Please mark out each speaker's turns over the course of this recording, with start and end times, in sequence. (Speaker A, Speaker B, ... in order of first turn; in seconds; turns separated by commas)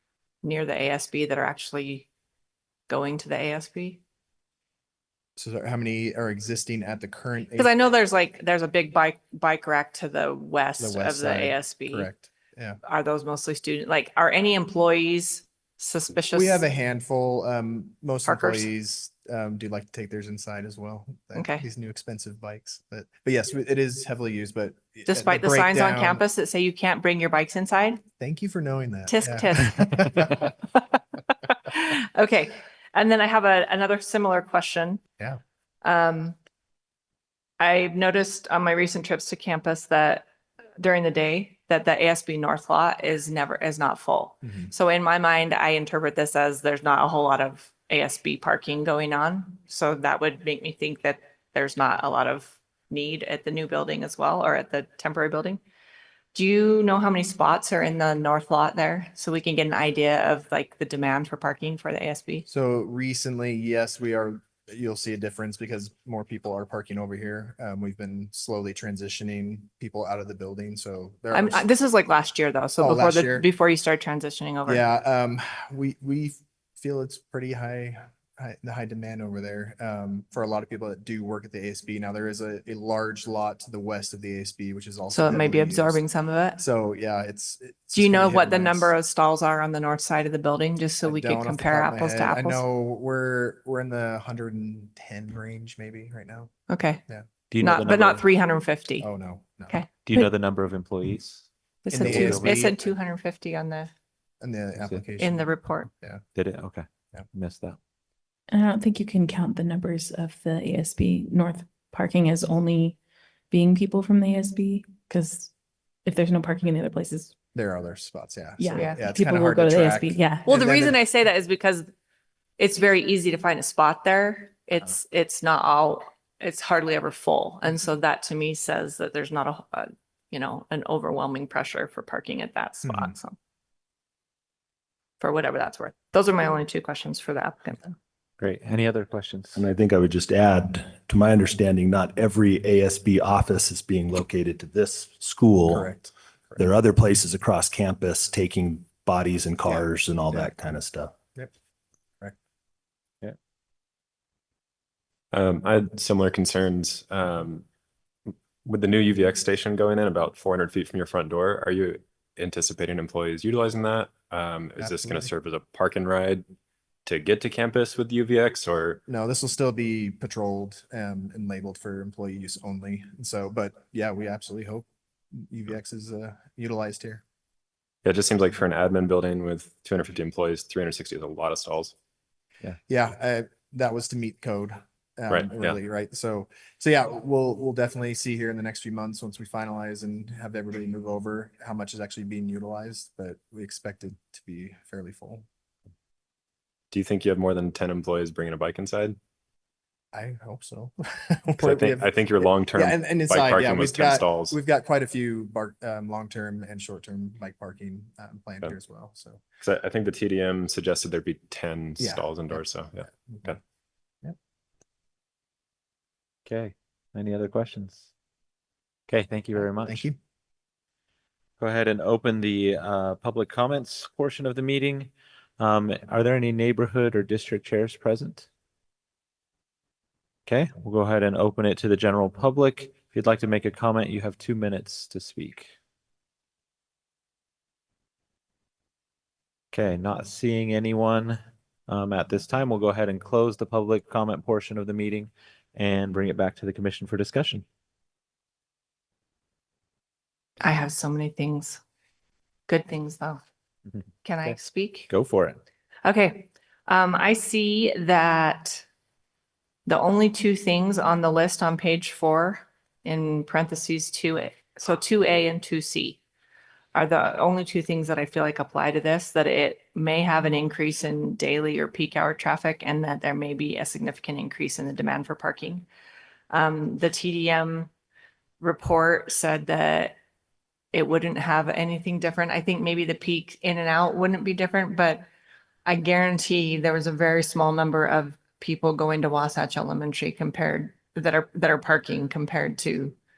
Speaker A: 0.4-2.1, Speaker A: 2.9-4.0, Speaker B: 5.4-7.7, Speaker A: 7.6-12.1, Speaker B: 10.8-12.8, Speaker A: 12.8-16.6, Speaker B: 16.3-26.2, Speaker A: 18.2-18.7, Speaker A: 21.3-21.6, Speaker A: 25.1-28.0, Speaker B: 28.2-30.5, Speaker A: 29.1-30.8, Speaker A: 31.4-35.0, Speaker A: 35.8-36.4, Speaker A: 37.6-40.3, Speaker A: 40.8-55.6, Speaker B: 44.4-44.7, Speaker A: 56.3-62.4, Speaker B: 62.5-71.7, Speaker A: 71.3-74.8, Speaker B: 72.8-73.5, Speaker B: 74.7-86.0, Speaker A: 85.1-86.6, Speaker B: 86.6-88.9, Speaker A: 87.9-92.6, Speaker B: 91.0-96.5, Speaker A: 96.7-97.0, Speaker C: 97.5-98.2, Speaker A: 97.6-99.1, Speaker B: 99.0-99.8, Speaker A: 99.7-100.3, Speaker C: 100.0-102.6, Speaker A: 101.8-103.9, Speaker B: 101.9-102.9, Speaker B: 104.4-105.5, Speaker A: 105.2-105.9, Speaker C: 106.3-107.8, Speaker D: 108.5-113.0, Speaker D: 113.5-115.5, Speaker D: 116.0-117.3, Speaker B: 117.5-121.0, Speaker D: 118.6-120.5, Speaker A: 118.7-119.1, Speaker A: 120.4-121.9, Speaker A: 122.6-133.4, Speaker B: 132.8-133.1, Speaker A: 135.2-137.9, Speaker C: 138.4-139.6, Speaker E: 139.5-145.9, Speaker B: 145.7-146.7, Speaker E: 146.6-151.1, Speaker B: 149.7-150.5, Speaker F: 155.3-157.6, Speaker F: 158.6-166.4, Speaker B: 164.8-165.3, Speaker F: 167.1-169.0, Speaker B: 169.1-177.2, Speaker F: 178.0-181.9, Speaker B: 182.9-195.4, Speaker F: 185.3-185.8, Speaker F: 196.9-199.2, Speaker B: 200.1-209.4, Speaker F: 201.6-204.5, Speaker F: 209.6-213.6, Speaker B: 212.0-213.5, Speaker C: 216.4-218.0, Speaker C: 219.1-220.1, Speaker B: 219.6-220.2, Speaker C: 221.6-228.4, Speaker C: 230.5-235.7, Speaker C: 239.7-247.6, Speaker A: 250.6-251.8, Speaker A: 252.7-253.4, Speaker C: 253.9-255.6, Speaker A: 254.2-255.1, Speaker A: 256.0-258.8, Speaker A: 259.9-266.2, Speaker A: 266.9-275.9, Speaker A: 276.5-277.9, Speaker A: 278.6-280.1, Speaker A: 280.9-285.2, Speaker A: 285.9-293.2